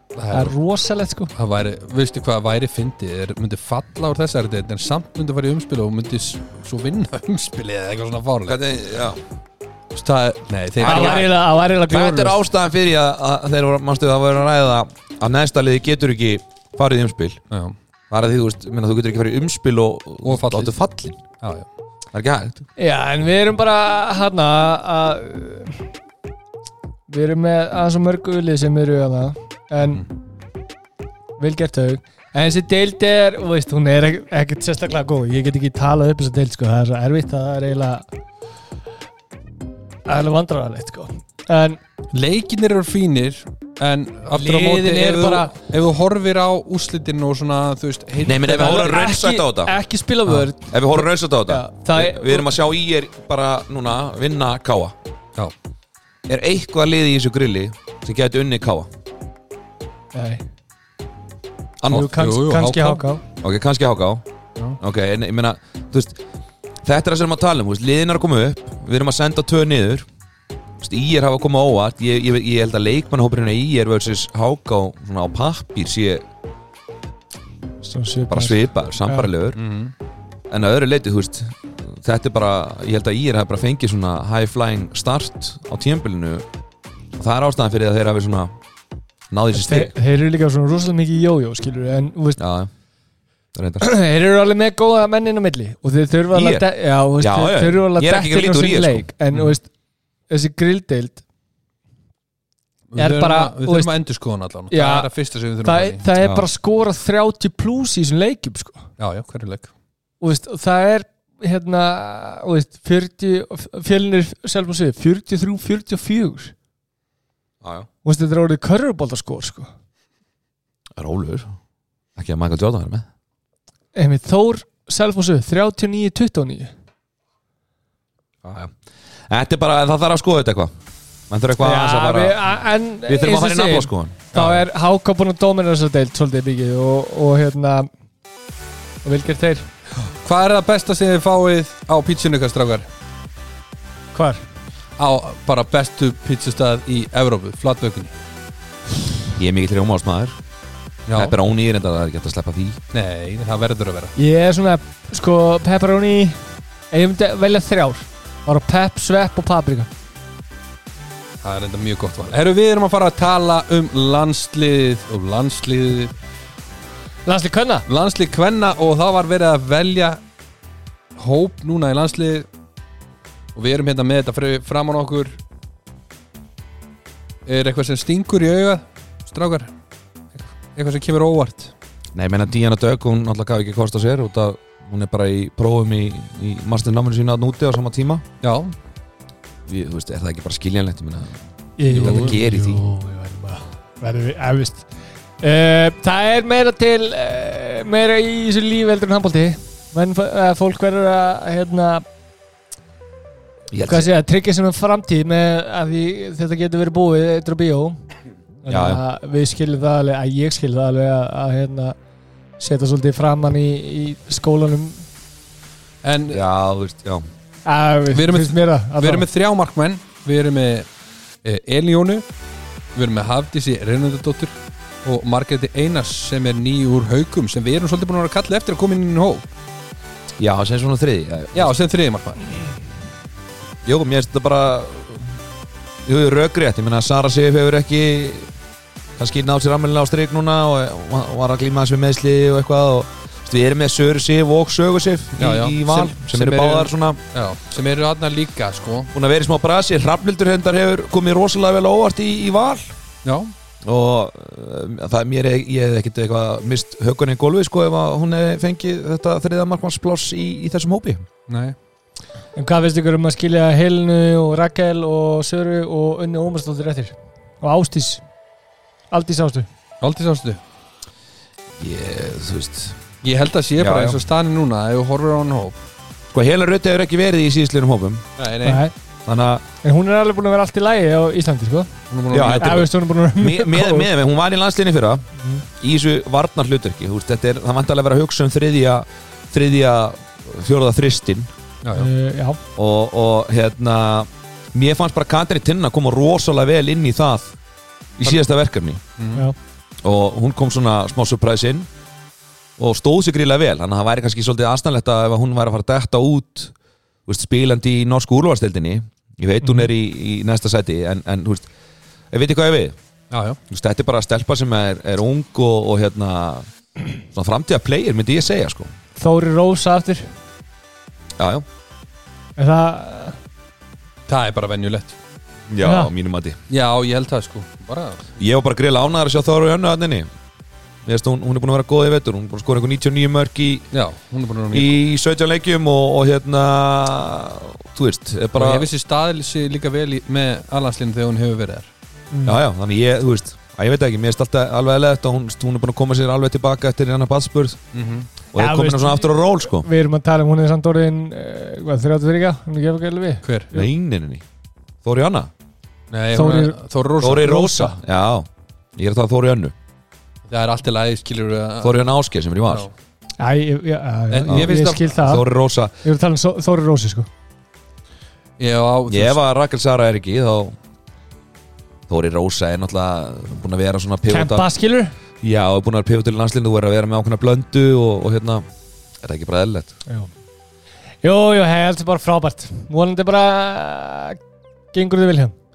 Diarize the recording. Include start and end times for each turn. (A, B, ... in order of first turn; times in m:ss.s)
0:00.1-0:00.5 A
0:00.3-0:01.3 B
0:01.3-0:08.6 A
0:08.5-0:09.2 C
0:09.9-0:11.3 A
0:10.8-0:11.3 C
0:10.8-0:12.4 B
0:11.9-0:17.4 C
0:17.5-0:17.8 A
0:18.1-0:21.2 C
0:20.2-0:20.7 A
0:21.4-0:21.7 A
0:22.1-0:22.6 C
0:22.8-0:25.8 B
0:27.1-0:30.0 B
0:31.4-0:38.0 B
0:40.0-0:41.8 B
0:42.1-0:49.1 A
0:44.3-0:45.5 B
0:48.2-0:49.7 C
0:48.5-0:52.5 B
0:50.7-0:54.9 C
0:56.3-0:58.9 C
1:00.1-1:00.4 B
1:01.8-1:02.1 C
1:01.9-1:03.2 B
1:01.9-1:03.0 A
1:03.4-1:04.2 C
1:04.8-1:06.2 C
1:06.8-1:10.0 C
1:10.8-1:16.2 C
1:17.8-1:19.3 B
1:18.3-1:19.6 C
1:19.5-1:19.9 A
1:20.5-1:26.4 C
1:27.2-1:28.5 C
1:29.3-1:29.9 C
1:29.5-1:32.4 B
1:32.4-1:32.7 C
1:33.5-1:33.9 C
1:33.8-1:39.7 B
1:36.3-1:36.6 C
1:37.2-1:39.0 C
1:40.3-1:41.2 B
1:42.9-1:46.0 A
1:43.0-1:43.9 B
1:44.7-1:45.1 B
1:45.6-1:48.8 B
1:46.2-1:46.5 C
1:49.0-1:49.7 A
1:50.2-1:56.5 B
1:57.6-1:57.9 C
1:58.0-1:59.7 B
2:01.0-2:01.5 C
2:02.2-2:03.0 C
2:03.9-2:06.7 B
2:08.4-2:08.7 C
2:09.3-2:10.7 C
2:11.3-2:12.4 C
2:11.6-2:17.9 B
2:13.0-2:14.2 C
2:14.3-2:14.6 A
2:19.0-2:19.7 B
2:20.2-2:22.9 A
2:24.1-2:24.4 B
2:25.0-2:28.1 A
2:29.4-2:30.3 C
2:31.1-2:31.4 A
2:31.1-2:32.8 C
2:32.9-2:34.1 A
2:34.2-2:36.4 B
2:36.9-2:39.9 B
2:41.4-2:46.1 A
2:47.2-2:47.8 B
2:47.9-2:50.2 A
2:51.2-2:52.5 A
2:53.5-2:55.4 A
2:57.4-2:59.7 A
3:00.4-3:01.7 A
3:02.1-3:08.2 C
3:08.4-3:08.7 A
3:09.7-3:11.4 C
3:11.8-3:14.8 B
3:11.9-3:12.4 A
3:11.9-3:12.8 C
3:15.4-3:22.0 B
3:23.7-3:24.1 C
3:23.8-3:28.0 B
3:28.6-3:31.9 B
3:28.7-3:29.0 C
3:32.6-3:35.0 B
3:36.0-3:36.4 A
3:36.3-3:37.2 C
3:37.6-3:39.2 B
3:38.1-3:40.9 A
3:41.4-3:42.2 A
3:42.9-3:49.5 A
3:50.4-3:51.7 C
3:51.5-3:52.5 A
3:53.8-3:55.3 C
3:56.0-3:58.5 C
3:59.2-4:07.2 C
4:05.4-4:09.1 A
4:09.1-4:12.9 C
4:13.2-4:13.5 A
4:13.8-4:21.2 C
4:21.5-4:21.8 A
4:22.6-4:28.2 B
4:29.1-4:29.7 B
4:30.0-4:30.6 A
4:31.8-4:33.0 C
4:33.2-4:35.8 A
4:33.8-4:34.2 C
4:36.3-4:38.2 C
4:38.4-4:38.9 A
4:38.6-4:38.9 B
4:39.2-4:39.6 C
4:39.8-4:44.1 B
4:42.1-4:42.9 A
4:42.3-4:45.2 C
4:45.8-4:51.5 C
4:51.8-4:52.1 A
4:52.0-4:52.6 B
4:52.8-4:57.5 C
4:58.2-4:59.0 C
4:59.2-4:59.4 A
5:00.0-5:01.9 C
5:02.8-5:06.7 C
5:07.3-5:11.7 C
5:12.3-5:13.0 C
5:13.3-5:13.6 A
5:13.7-5:16.7 C
5:17.3-5:18.9 C
5:19.2-5:20.3 B
5:21.4-5:21.6 C
5:22.6-5:23.4 B
5:24.3-5:25.2 A
5:25.7-5:26.6 C
5:25.8-5:26.1 B
5:26.7-5:28.3 A
5:28.4-5:30.3 C
5:31.0-5:33.9 C
5:33.9-5:35.0 A
5:34.7-5:38.9 C
5:38.5-5:41.9 A
5:42.3-5:42.6 B
5:42.4-5:47.8 C
5:47.9-5:48.3 A
5:48.5-5:49.9 C
5:48.5-5:53.9 B
5:53.4-5:53.7 A
5:53.7-5:54.4 C
5:55.0-5:55.5 C
5:56.1-5:57.6 A
5:56.3-5:56.8 B
5:57.2-5:59.7 C
5:57.4-5:57.9 B
6:00.5-6:02.0 A
6:01.8-6:02.8 C
6:02.7-6:02.9 A
6:03.4-6:05.4 B
6:04.3-6:05.1 A
6:04.5-6:05.9 C
6:06.0-6:07.3 B
6:08.6-6:09.4 A
6:09.1-6:10.8 C
6:12.1-6:14.6 C
6:14.3-6:15.1 B
6:15.4-6:18.6 C
6:19.2-6:19.9 C
6:21.2-6:24.4 B
6:24.9-6:25.5 B